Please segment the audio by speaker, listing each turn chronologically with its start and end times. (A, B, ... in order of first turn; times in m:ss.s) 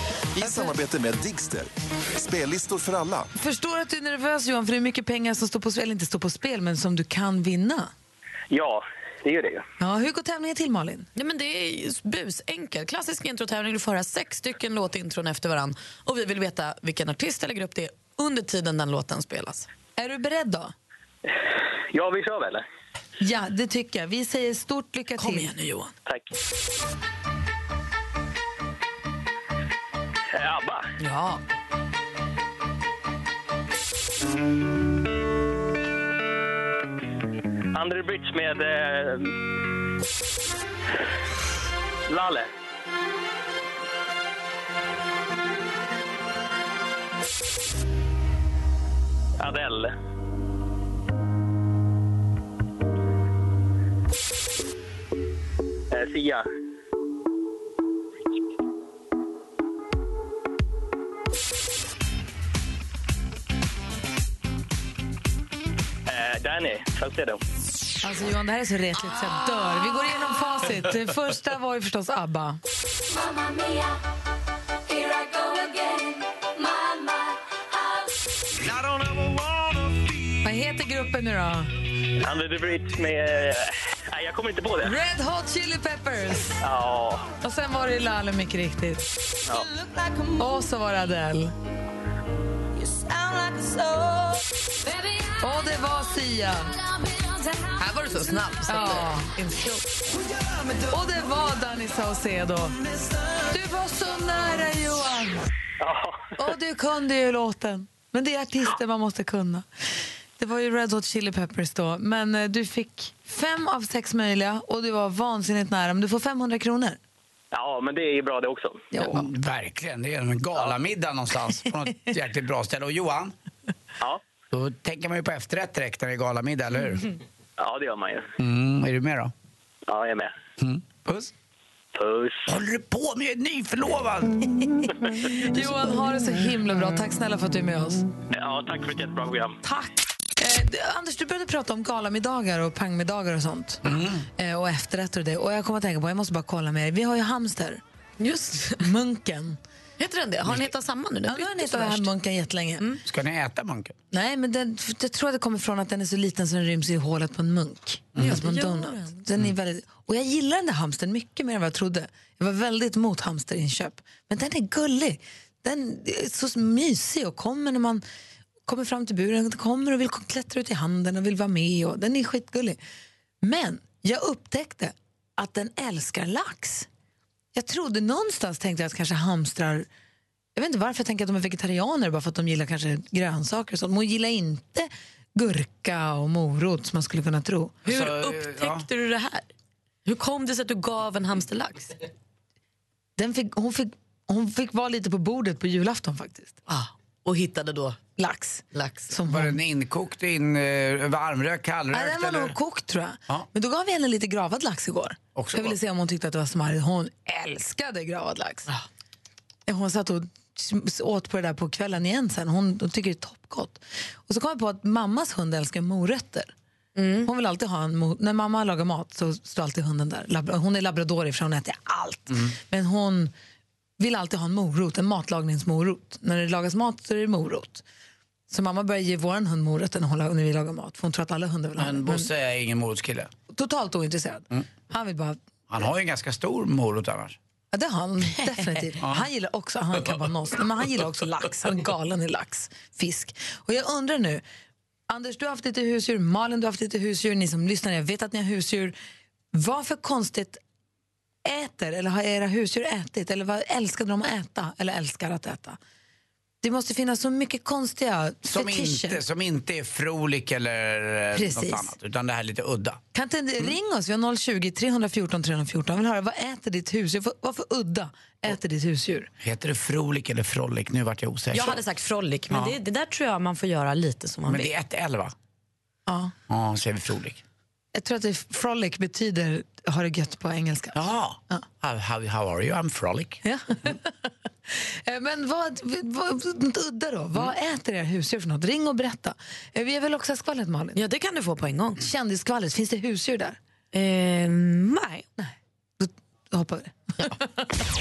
0:00.4-0:03.3 A
0:00.4-0:00.8 B
0:03.4-0:07.9 B
0:08.5-0:09.6 C
0:09.8-0:11.1 B
0:11.2-0:19.7 D
0:20.0-0:20.7 B
0:21.9-0:22.6 C
0:23.2-0:25.8 B
0:25.2-0:25.8 D
0:26.1-0:26.4 C
0:30.3-0:30.9 C
0:31.0-0:31.4 B
0:37.7-0:39.3 C
0:42.1-0:42.5 C
0:49.4-0:49.9 C
0:55.9-0:56.5 C
1:06.1-1:07.4 C
1:08.0-1:12.6 B
1:18.7-1:20.0 A
1:20.4-1:21.7 B
1:22.2-1:24.9 C
1:24.8-1:26.6 B
1:26.6-1:27.3 C
1:27.4-1:29.0 B
1:29.5-1:29.7 C
1:30.2-1:31.5 B
1:35.4-1:36.8 B
1:37.8-1:39.7 D
1:38.7-1:39.6 B
1:40.9-1:42.8 B
1:43.5-1:45.4 B
1:45.8-1:46.3 C
1:46.4-1:49.6 B
1:50.4-1:57.0 B
1:57.5-1:58.9 C
1:58.9-1:59.3 B
1:59.0-2:03.3 E
2:04.5-2:07.0 E
2:07.6-2:08.3 C
2:08.4-2:09.3 E
2:09.9-2:10.3 C
2:10.6-2:11.3 E
2:11.9-2:12.5 C
2:12.5-2:14.5 E
2:15.2-2:18.1 B
2:18.3-2:19.6 C
2:19.6-2:23.8 B
2:23.8-2:24.3 E
2:24.4-2:27.8 B
2:28.2-2:28.8 D
2:28.8-2:29.6 B
2:30.0-2:32.1 D
2:31.3-2:32.8 B
2:33.0-2:34.0 E
2:34.1-2:48.0 B
2:38.1-2:38.4 E
2:38.2-2:39.1 D
2:48.7-2:52.8 B
2:53.4-2:56.9 B
2:57.5-2:59.9 B
3:00.6-3:07.8 B
3:07.8-3:09.5 D
3:07.9-3:08.9 E
3:10.1-3:12.0 D
3:13.2-3:16.6 B
3:16.7-3:18.0 D
3:18.2-3:19.6 B
3:18.7-3:19.1 D
3:19.3-3:22.6 E
3:21.9-3:28.7 B
3:25.4-3:25.8 E
3:29.7-3:36.5 B
3:37.0-3:37.3 D
3:37.2-3:43.3 B
3:44.0-3:47.8 B
3:48.5-3:52.3 B
3:51.8-3:53.3 E
3:53.5-3:55.4 B
3:55.7-3:57.4 E
3:57.7-4:04.4 B
4:05.1-4:09.0 B
4:09.5-4:10.6 B
4:11.4-4:15.8 B
4:16.6-4:19.2 B
4:18.5-4:23.0 E
4:21.4-4:21.9 B
4:23.1-4:29.3 B
4:29.4-4:31.8 E
4:31.5-4:34.7 D
4:32.5-4:32.8 E
4:34.5-4:35.3 E
4:36.1-4:36.3 B
4:36.5-4:37.4 E
4:37.9-4:41.0 B
4:40.9-4:43.4 E
4:43.4-4:44.1 B
4:44.7-4:51.0 B
4:51.0-4:52.0 D
4:52.0-4:53.6 B
4:53.9-4:55.3 D
4:55.4-4:57.3 B